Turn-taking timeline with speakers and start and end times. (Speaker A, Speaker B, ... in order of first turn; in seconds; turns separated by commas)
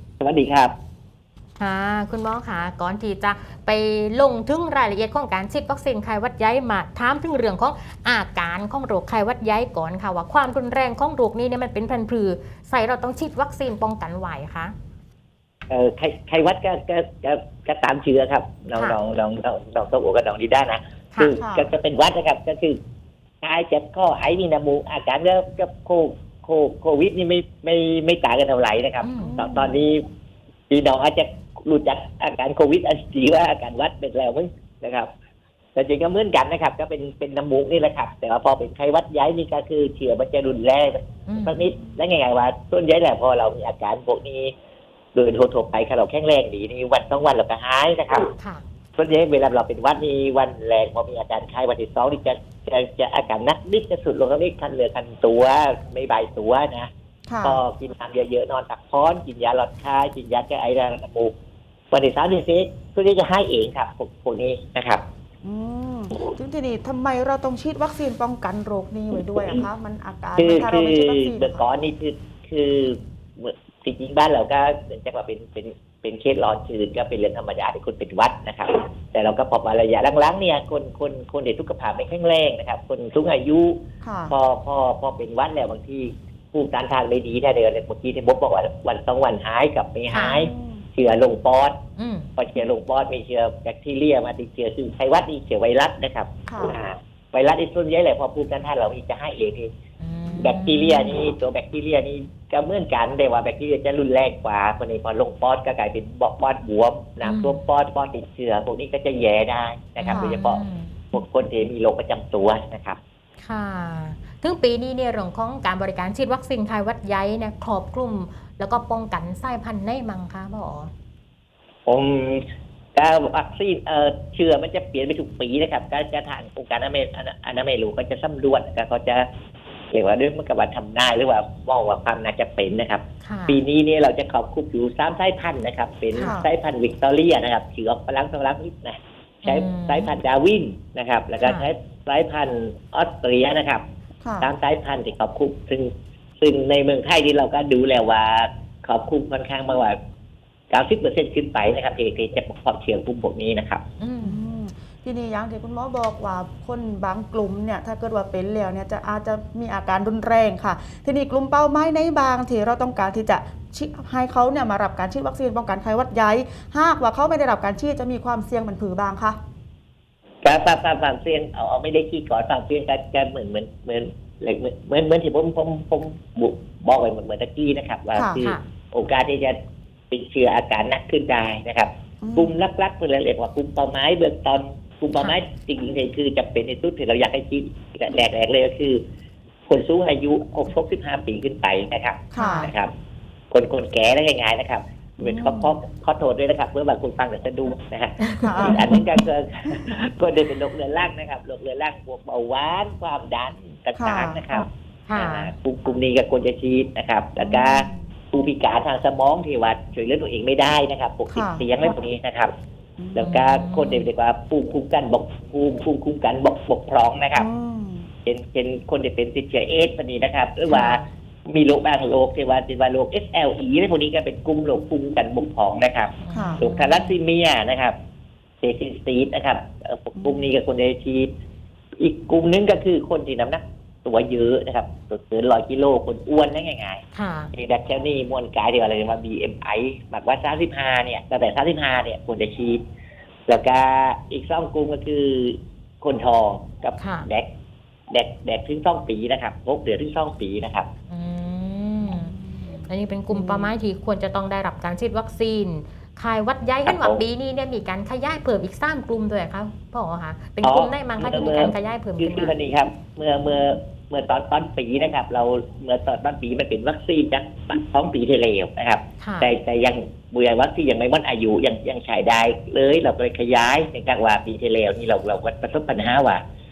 Speaker A: 0.2-0.8, Speaker B: 1.6-14.7, Speaker A: 15.7-22.8, Speaker B: 18.8-19.0, Speaker C: 21.4-21.7, Speaker A: 23.4-30.0, Speaker B: 29.0-29.4, Speaker C: 29.2-29.8, Speaker A: 30.7-35.1, Speaker A: 35.8-44.5, Speaker B: 41.3-41.6, Speaker A: 45.1-48.3, Speaker B: 48.4-48.6, Speaker A: 49.0-56.9, Speaker C: 57.3-57.6, Speaker A: 57.4-61.3, Speaker A: 61.9-65.0, Speaker C: 65.4-71.6, Speaker A: 70.4-83.8, Speaker C: 84.0-84.3, Speaker A: 84.3-91.8, Speaker B: 90.1-90.5, Speaker C: 90.3-90.8, Speaker B: 92.0-92.3, Speaker A: 92.4-99.7, Speaker C: 96.5-96.8, Speaker B: 100.0-101.2, Speaker A: 100.4-110.6, Speaker B: 107.2-107.6, Speaker B: 110.0-111.0, Speaker A: 111.1-113.0, Speaker B: 113.4-120.9, Speaker A: 121.9-122.4, Speaker A: 123.0-129.3, Speaker A: 129.9-143.8, Speaker B: 133.2-133.6, Speaker C: 136.2-136.5, Speaker B: 139.4-140.1, Speaker B: 141.4-141.7, Speaker C: 144.2-144.5, Speaker A: 144.4-150.0, Speaker A: 150.7-153.8, Speaker B: 154.0-154.4, Speaker C: 154.2-169.4, Speaker A: 170.4-179.6, Speaker C: 178.2-178.4, Speaker B: 178.4-178.7, Speaker A: 180.1-189.0, Speaker C: 182.2-182.6, Speaker A: 189.7-192.9, Speaker C: 192.3-192.7, Speaker B: 192.4-192.7, Speaker A: 193.5-212.5, Speaker C: 195.2-195.8, Speaker C: 198.2-199.0, Speaker C: 203.9-204.5, Speaker B: 205.1-205.5, Speaker C: 207.4-208.0, Speaker C: 211.3-211.7, Speaker C: 213.0-213.4, Speaker A: 213.2-217.5, Speaker B: 213.3-214.1, Speaker C: 217.3-218.1, Speaker A: 218.3-227.9, Speaker B: 220.7-221.1, Speaker B: 226.2-227.2, Speaker C: 226.3-226.6, Speaker A: 228.6-231.3, Speaker A: 232.0-237.0, Speaker B: 237.1-237.5, Speaker A: 237.6-242.8, Speaker A: 243.5-247.5, Speaker B: 247.0-247.3, Speaker A: 248.1-250.9, Speaker B: 251.1-252.4, Speaker C: 252.1-253.7, Speaker B: 252.9-262.6, Speaker A: 256.9-257.2, Speaker A: 260.6-276.4, Speaker B: 269.2-269.5